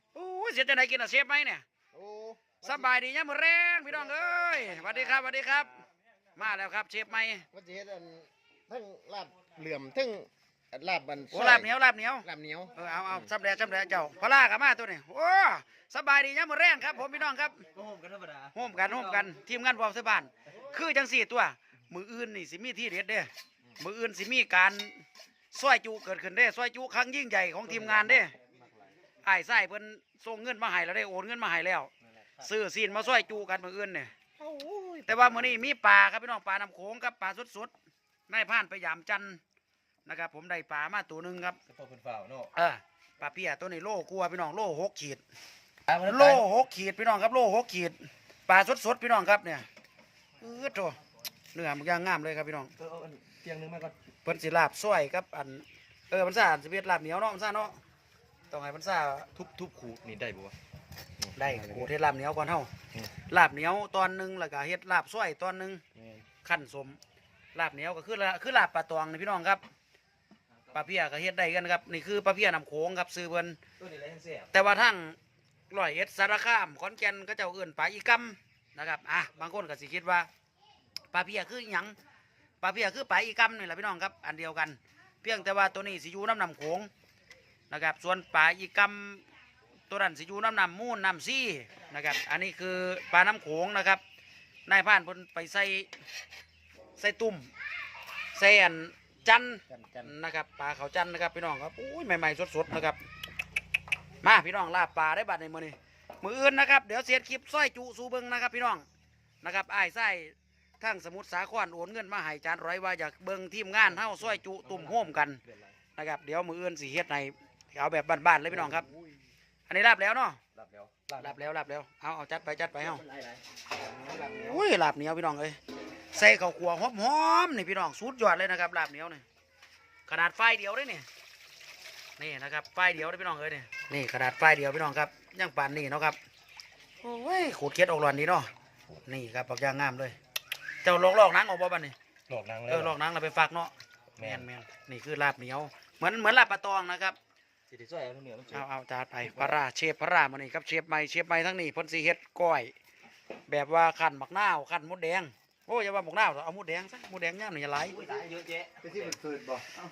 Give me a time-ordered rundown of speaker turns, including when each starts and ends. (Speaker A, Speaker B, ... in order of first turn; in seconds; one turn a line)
Speaker A: 0.1-1.6
Speaker B: 1.9-2.9
Speaker A: 2.6-5.8
Speaker B: 4.0-5.3
Speaker A: 6.3-7.5
Speaker B: 7.5-11.7
Speaker A: 11.3-17.6
Speaker B: 12.2-12.7
Speaker C: 17.7-19.3
Speaker A: 18.5-28.3
Speaker C: 27.6-28.3
Speaker A: 29.2-34.1
Speaker C: 32.0-32.4
Speaker B: 34.4-35.1
Speaker A: 35.0-37.7
Speaker A: 38.3-39.4
Speaker A: 40.0-41.6
Speaker C: 41.7-42.5
Speaker A: 42.5-45.2
Speaker C: 45.9-46.4
Speaker A: 46.0-49.7
Speaker A: 50.4-51.0
Speaker A: 51.5-52.7
Speaker C: 52.8-53.9
Speaker A: 54.2-57.8
Speaker A: 58.5-59.3
Speaker C: 59.3-60.5
Speaker C: 61.2-61.9
Speaker A: 61.3-62.7
Speaker A: 63.2-65.8
Speaker C: 65.9-66.2
Speaker A: 66.4-67.0
Speaker A: 67.5-69.6
Speaker A: 70.7-73.6
Speaker C: 73.8-74.5
Speaker A: 74.5-75.2
Speaker A: 75.7-80.3
Speaker A: 81.1-81.9
Speaker A: 82.6-86.9
Speaker A: 87.7-89.2
Speaker A: 89.9-94.0
Speaker A: 94.7-95.9
Speaker A: 97.0-97.5
Speaker A: 98.3-103.0
Speaker B: 99.7-100.1
Speaker A: 104.2-108.8
Speaker A: 109.4-115.4
Speaker C: 113.8-115.8
Speaker A: 116.0-118.9
Speaker C: 118.5-119.1
Speaker A: 119.7-120.4
Speaker C: 120.5-121.4
Speaker A: 121.2-123.0
Speaker C: 122.9-123.4
Speaker B: 123.9-124.5
Speaker A: 124.4-125.6
Speaker A: 126.1-129.2
Speaker A: 130.1-131.1
Speaker A: 132.2-136.2
Speaker A: 137.0-138.5
Speaker A: 139.0-140.2
Speaker A: 140.8-141.9
Speaker C: 142.3-142.9
Speaker A: 142.7-147.2
Speaker C: 144.2-144.5
Speaker C: 147.7-148.6
Speaker A: 148.5-152.7
Speaker C: 149.2-149.6
Speaker A: 153.5-158.0
Speaker C: 157.9-159.2
Speaker B: 158.8-159.8